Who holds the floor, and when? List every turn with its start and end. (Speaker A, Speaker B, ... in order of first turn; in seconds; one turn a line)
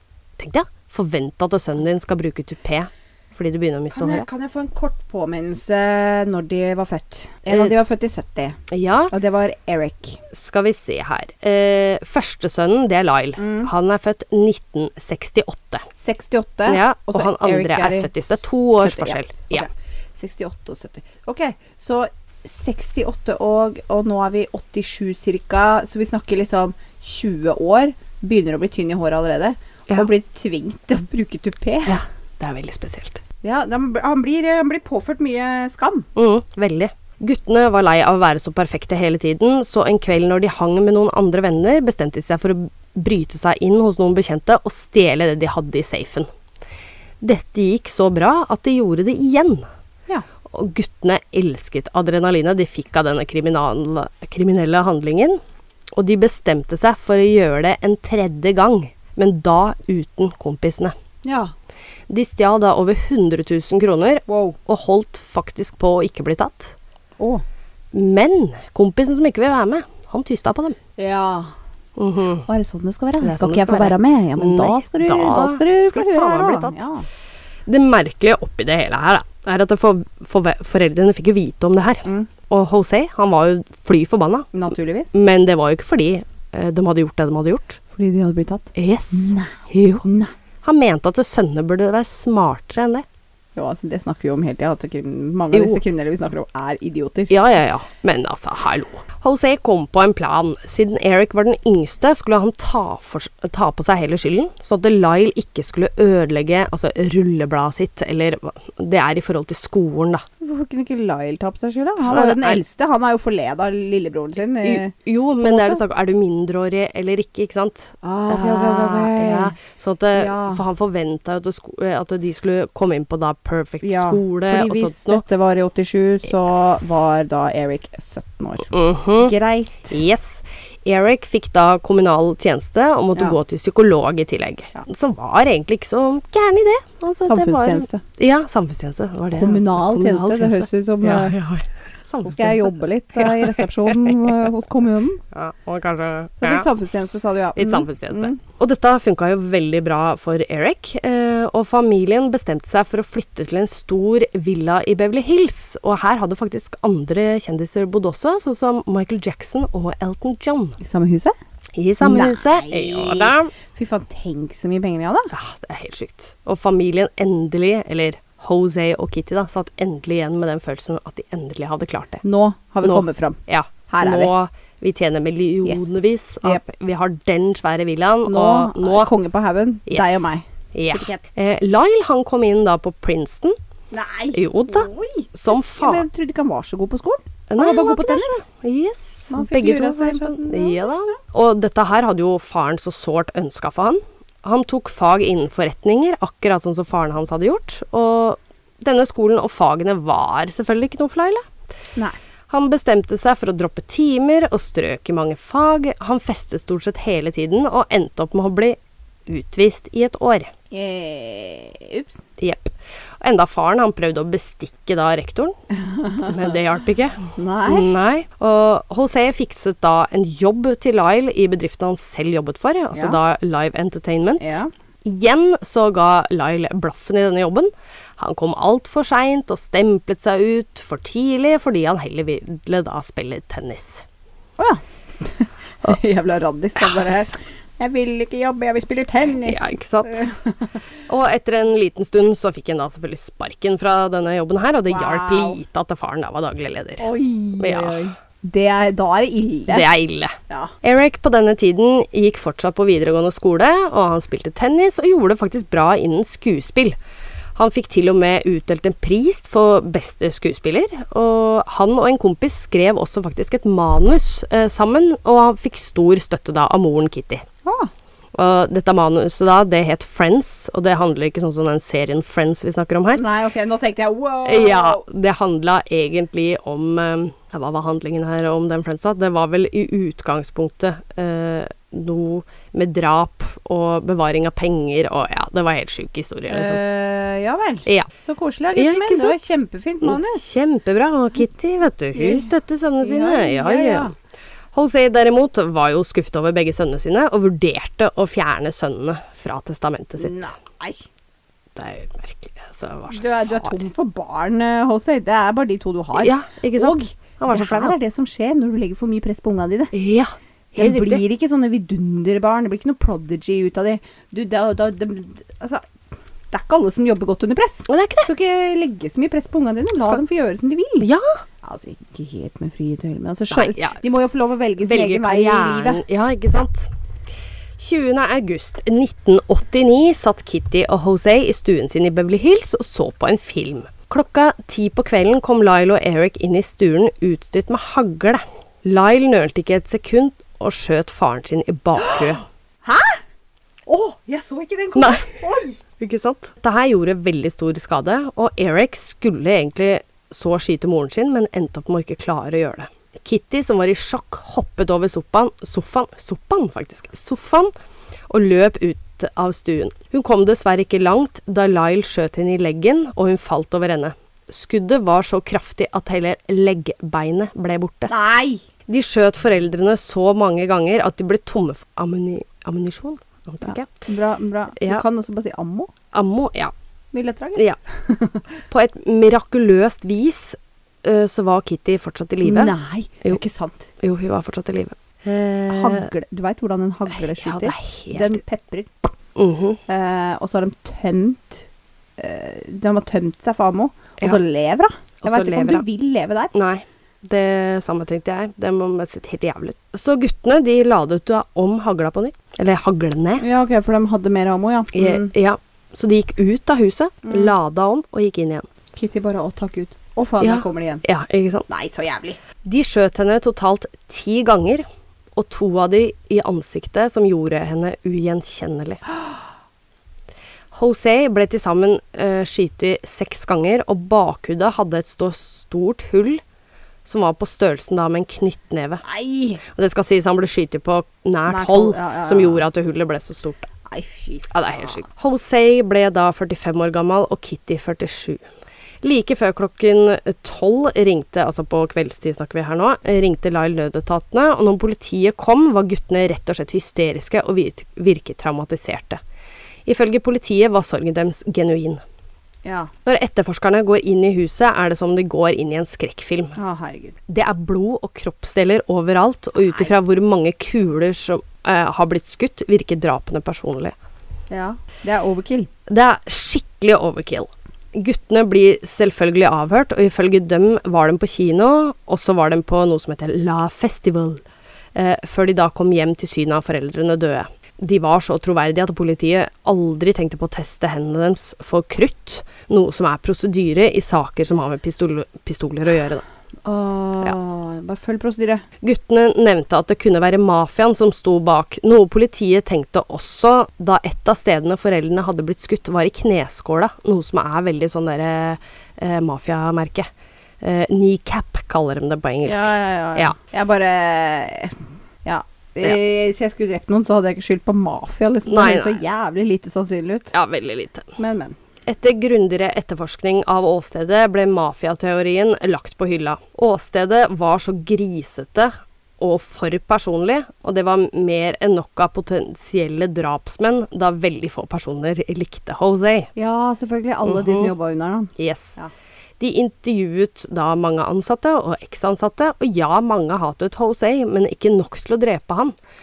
Speaker A: 0.4-4.3
Speaker B: 3.9-8.6
Speaker A: 7.5-7.7
Speaker A: 8.7-9.1
Speaker B: 9.1-10.2
Speaker A: 10.3-15.8
Speaker B: 13.4-13.7
Speaker B: 16.0-18.1
Speaker A: 16.6-19.7
Speaker B: 18.8-32.0
Speaker A: 31.9-33.2
Speaker B: 33.4-36.1
Speaker A: 36.1-46.3
Speaker A: 47.2-49.7
Speaker A: 50.5-55.4
Speaker A: 56.0-60.9
Speaker B: 61.2-61.5
Speaker A: 62.1-66.8
Speaker B: 64.3-64.6
Speaker B: 67.2-67.4
Speaker A: 67.9-70.8
Speaker B: 71.0-71.5
Speaker A: 72.0-72.5
Speaker B: 72.5-77.1
Speaker A: 73.2-76.8
Speaker A: 77.7-84.5
Speaker B: 82.0-82.3
Speaker B: 84.5-85.1
Speaker A: 85.1-87.8
Speaker B: 87.9-90.3
Speaker A: 88.7-90.0
Speaker A: 90.6-93.0
Speaker B: 93.5-97.3
Speaker A: 95.5-95.8
Speaker A: 97.3-110.2
Speaker B: 110.4-115.8
Speaker A: 112.0-112.6
Speaker A: 114.6-125.2
Speaker B: 118.0-119.5
Speaker B: 120.1-120.6
Speaker B: 123.8-130.0
Speaker A: 128.7-129.3
Speaker A: 129.9-143.7
Speaker B: 137.2-138.0
Speaker B: 139.3-141.3
Speaker B: 142.2-145.2
Speaker A: 145.3-146.7
Speaker B: 146.4-148.4
Speaker A: 147.6-160.8
Speaker B: 160.8-161.3
Speaker A: 161.8-163.5
Speaker B: 162.0-165.3
Speaker A: 165.3-172.2
Speaker B: 172.2-174.3
Speaker A: 172.8-179.1
Speaker B: 175.6-176.6
Speaker B: 178.3-181.2
Speaker A: 179.9-183.6
Speaker B: 183.9-188.4
Speaker A: 184.3-186.0
Speaker A: 187.5-201.4
Speaker B: 189.3-191.1
Speaker A: 202.5-210.5
Speaker B: 210.7-212.2
Speaker A: 212.4-215.5
Speaker B: 215.8-216.5
Speaker A: 216.1-234.0
Speaker B: 217.3-217.9
Speaker B: 222.9-223.2
Speaker B: 224.4-224.7
Speaker B: 234.6-240.8
Speaker A: 239.4-240.3
Speaker A: 241.1-248.1
Speaker B: 244.9-245.6
Speaker B: 247.0-249.9
Speaker A: 249.7-256.9
Speaker B: 250.5-250.7
Speaker A: 257.6-267.4
Speaker B: 267.6-267.9
Speaker A: 268.3-273.2
Speaker B: 273.1-275.0
Speaker A: 274.4-286.8
Speaker B: 286.5-290.5
Speaker A: 288.7-294.1
Speaker B: 292.1-292.5
Speaker B: 293.0-294.1
Speaker A: 294.7-300.5
Speaker B: 300.2-301.1
Speaker A: 301.8-303.8
Speaker B: 303.1-309.9
Speaker A: 306.1-307.9
Speaker A: 309.9-311.2
Speaker B: 310.8-316.0
Speaker B: 316.5-321.1
Speaker A: 317.9-318.3
Speaker A: 321.0-321.4
Speaker B: 321.6-326.0
Speaker A: 323.5-324.0
Speaker A: 324.8-326.9
Speaker A: 327.8-342.4
Speaker B: 342.0-343.2
Speaker B: 343.9-345.8
Speaker A: 344.9-345.3
Speaker A: 346.0-357.7
Speaker A: 358.3-368.1
Speaker B: 368.1-368.6
Speaker A: 368.9-374.1
Speaker B: 373.6-375.9
Speaker A: 374.8-375.0
Speaker A: 376.1-376.7
Speaker B: 377.1-378.5
Speaker A: 378.7-383.4
Speaker B: 382.4-383.9
Speaker A: 384.0-386.1
Speaker B: 385.7-389.1
Speaker A: 387.2-388.4
Speaker A: 389.4-389.8
Speaker B: 389.9-396.5
Speaker A: 395.2-395.8
Speaker A: 396.5-403.4
Speaker B: 403.4-405.3
Speaker A: 404.9-408.7
Speaker B: 407.2-407.5
Speaker B: 408.9-411.0
Speaker A: 410.4-411.7
Speaker B: 411.7-412.4
Speaker A: 412.6-414.8
Speaker A: 415.4-419.0
Speaker A: 420.7-426.4
Speaker A: 427.0-429.0
Speaker B: 429.0-429.6
Speaker A: 429.6-433.7
Speaker B: 431.5-432.6
Speaker B: 433.9-435.0
Speaker A: 434.5-438.4
Speaker A: 439.0-449.2
Speaker A: 449.9-452.0
Speaker B: 452.6-452.9
Speaker A: 453.0-456.6
Speaker B: 456.6-457.1
Speaker A: 457.3-463.9
Speaker B: 459.6-459.9
Speaker B: 464.5-465.7
Speaker A: 465.9-474.4
Speaker A: 474.9-486.2
Speaker B: 486.6-488.6
Speaker A: 488.8-500.1
Speaker A: 500.6-503.3
Speaker B: 502.4-510.3
Speaker A: 508.4-509.0
Speaker A: 510.3-511.2
Speaker B: 511.2-511.6
Speaker A: 511.9-526.3
Speaker B: 526.4-528.9
Speaker A: 527.2-527.7
Speaker A: 528.4-528.8
Speaker A: 529.4-535.7